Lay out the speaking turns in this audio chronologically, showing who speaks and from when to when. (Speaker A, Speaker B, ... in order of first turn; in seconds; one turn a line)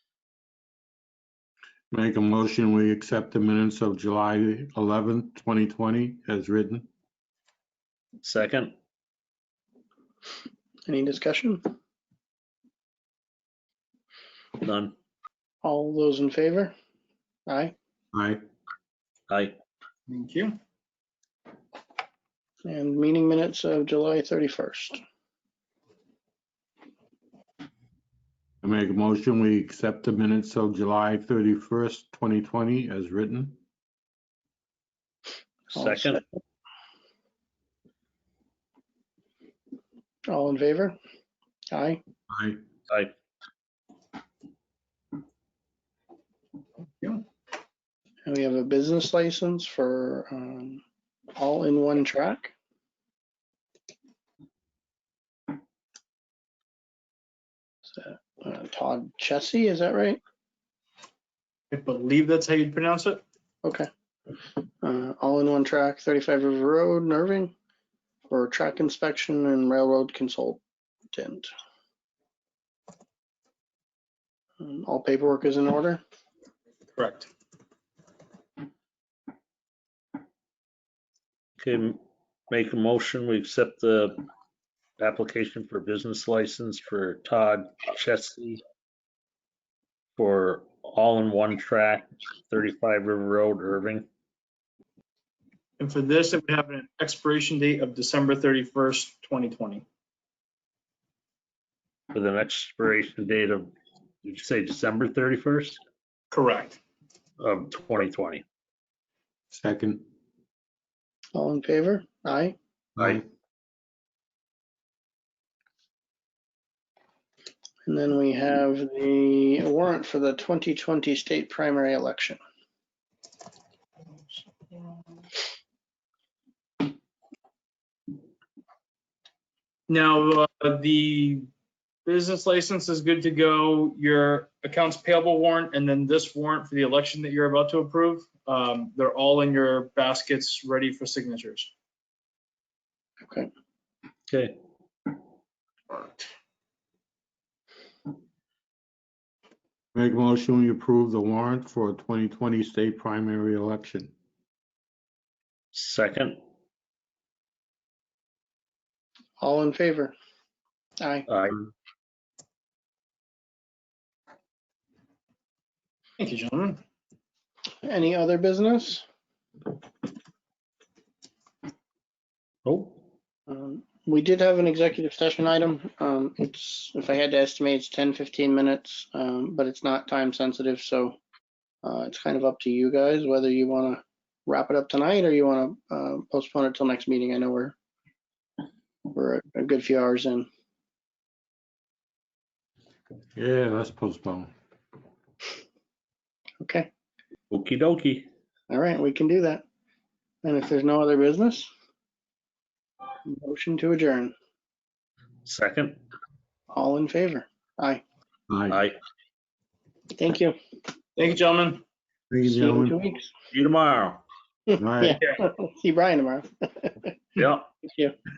Speaker A: 1.9-6.9
Speaker B: 8.2-8.7
Speaker C: 10.9-11.6
Speaker B: 14.6-14.9
Speaker C: 15.6-16.7
Speaker C: 17.5-17.8
Speaker A: 18.1-18.4
Speaker B: 19.3-19.6
Speaker D: 20.1-20.6
Speaker C: 22.7-25.0
Speaker A: 28.6-33.6
Speaker B: 35.7-36.2
Speaker C: 35.8-36.2
Speaker C: 40.3-41.0
Speaker C: 41.7-42.0
Speaker A: 42.3-42.6
Speaker C: 48.3-50.8
Speaker C: 51.4-52.5
Speaker C: 57.9-60.2
Speaker D: 61.7-63.2
Speaker C: 64.8-67.5
Speaker C: 68.3-70.6
Speaker C: 71.1-71.5
Speaker C: 74.6-76.0
Speaker D: 77.0-77.3
Speaker B: 81.6-84.2
Speaker B: 85.0-88.6
Speaker B: 90.2-94.1
Speaker D: 95.8-99.8
Speaker B: 102.1-103.7
Speaker B: 104.2-105.8
Speaker D: 106.3-106.8
Speaker B: 107.4-108.4
Speaker A: 109.5-110.0
Speaker C: 111.3-112.6
Speaker A: 113.0-113.2
Speaker C: 117.9-122.4
Speaker D: 129.9-131.5
Speaker D: 132.1-141.7
Speaker B: 144.3-144.6
Speaker A: 149.9-154.1
Speaker B: 155.7-156.4
Speaker C: 159.4-160.2
Speaker C: 161.0-161.3
Speaker B: 161.3-161.7
Speaker D: 166.2-166.8
Speaker C: 167.8-169.1
Speaker B: 172.7-173.0
Speaker C: 173.5-181.2
Speaker C: 181.8-187.8
Speaker C: 189.1-190.5
Speaker A: 193.4-194.5
Speaker C: 196.6-196.9
Speaker B: 197.5-198.3
Speaker C: 198.7-199.6
Speaker C: 200.4-201.7
Speaker C: 203.2-204.3
Speaker B: 205.4-206.0
Speaker C: 206.7-208.0
Speaker A: 208.5-208.8
Speaker B: 208.7-209.0
Speaker C: 210.2-210.6
Speaker D: 211.2-211.8
Speaker A: 212.3-213.0
Speaker C: 212.5-213.3
Speaker B: 213.5-214.2
Speaker C: 214.7-217.2
Speaker A: 214.8-215.2
Speaker B: 217.4-217.7
Speaker C: 217.8-218.2